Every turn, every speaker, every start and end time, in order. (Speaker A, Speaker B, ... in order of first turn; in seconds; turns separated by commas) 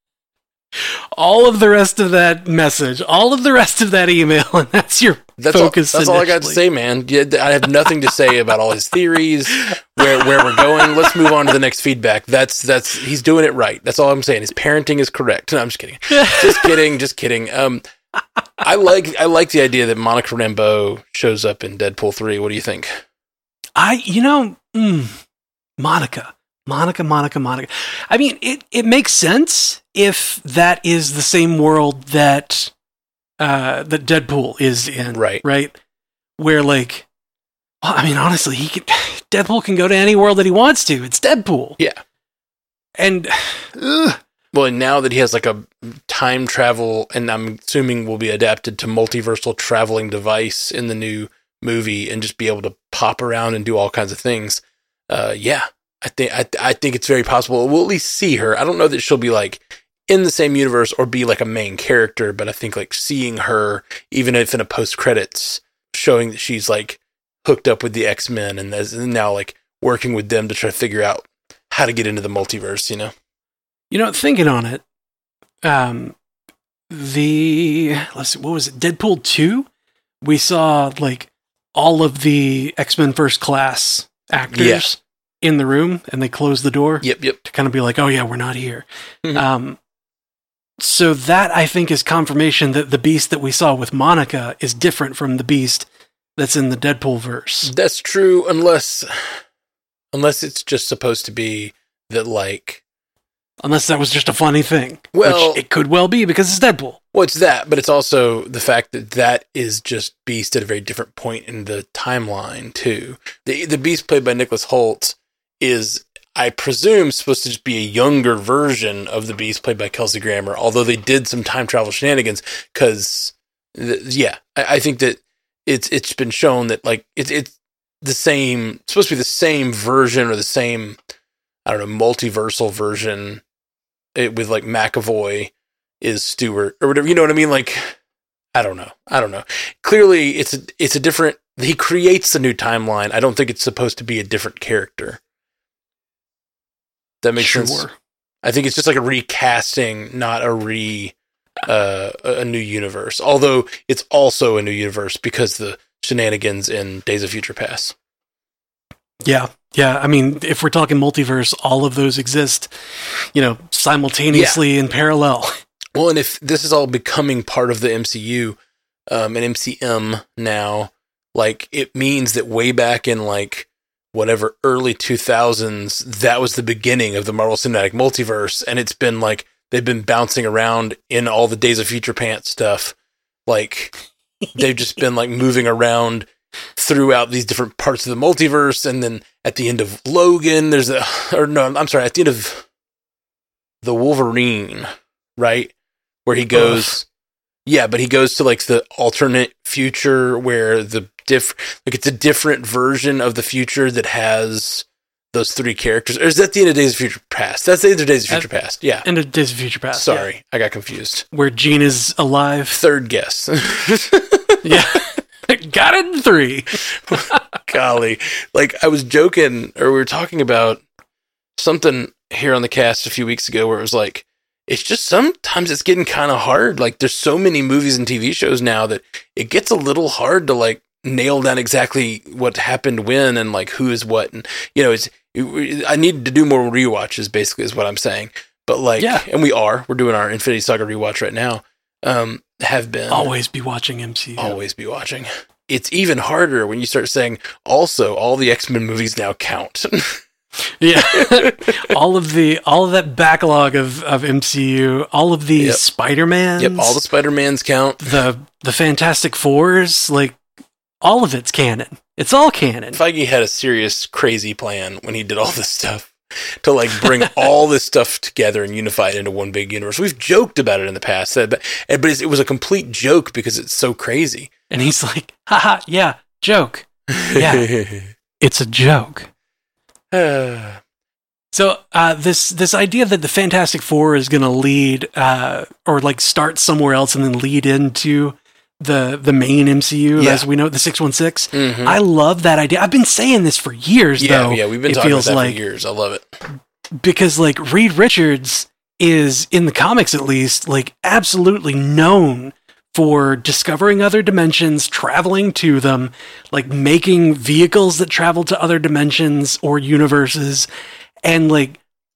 Speaker A: 0.8-6.6, Speaker B: 5.4-17.8, Speaker A: 10.1-10.8, Speaker A: 16.1-16.7, Speaker B: 18.6-23.0, Speaker A: 23.8-25.2, Speaker A: 25.8-32.7, Speaker A: 33.4-35.8, Speaker B: 35.1-35.4, Speaker A: 36.4-37.1, Speaker A: 37.8-41.8, Speaker A: 43.0-44.2, Speaker B: 44.5-73.1, Speaker A: 73.9-74.8, Speaker A: 75.6-76.2, Speaker A: 76.9-79.7, Speaker A: 80.2-89.8, Speaker B: 84.5-84.9, Speaker B: 87.0-87.4, Speaker A: 90.8-97.7, Speaker B: 97.7-99.4, Speaker B: 100.1-102.8, Speaker A: 103.6-107.0, Speaker B: 105.1-105.6, Speaker B: 107.1-131.0, Speaker B: 131.7-133.4, Speaker B: 134.2-137.9, Speaker B: 138.5-145.2, Speaker B: 147.2-147.9, Speaker A: 147.4-147.9, Speaker B: 148.4-157.9, Speaker A: 159.2-162.7, Speaker A: 163.3-165.6, Speaker B: 164.3-164.6, Speaker B: 166.0-168.6, Speaker B: 169.1-182.9, Speaker B: 183.5-184.0, Speaker B: 184.6-192.7, Speaker B: 193.8-195.7, Speaker B: 196.3-197.1, Speaker A: 196.5-196.9, Speaker B: 197.7-209.1, Speaker A: 209.0-210.3, Speaker B: 209.9-211.2, Speaker A: 211.3-212.8, Speaker B: 212.7-215.0, Speaker A: 214.6-217.4, Speaker B: 217.1-220.8, Speaker B: 221.6-243.3, Speaker A: 239.0-239.2, Speaker A: 243.1-244.6, Speaker B: 244.4-250.2, Speaker A: 250.8-257.0, Speaker B: 251.0-251.8, Speaker B: 255.6-255.8, Speaker B: 256.6-258.1, Speaker A: 258.0-260.4, Speaker A: 261.0-263.0, Speaker B: 262.9-274.5, Speaker A: 274.7-277.7, Speaker B: 277.1-278.1, Speaker A: 278.4-279.3, Speaker B: 280.1-280.8, Speaker A: 281.5-295.6, Speaker B: 290.2-290.4, Speaker B: 291.5-292.0, Speaker B: 294.2-296.4, Speaker A: 296.9-310.7, Speaker A: 311.2-311.8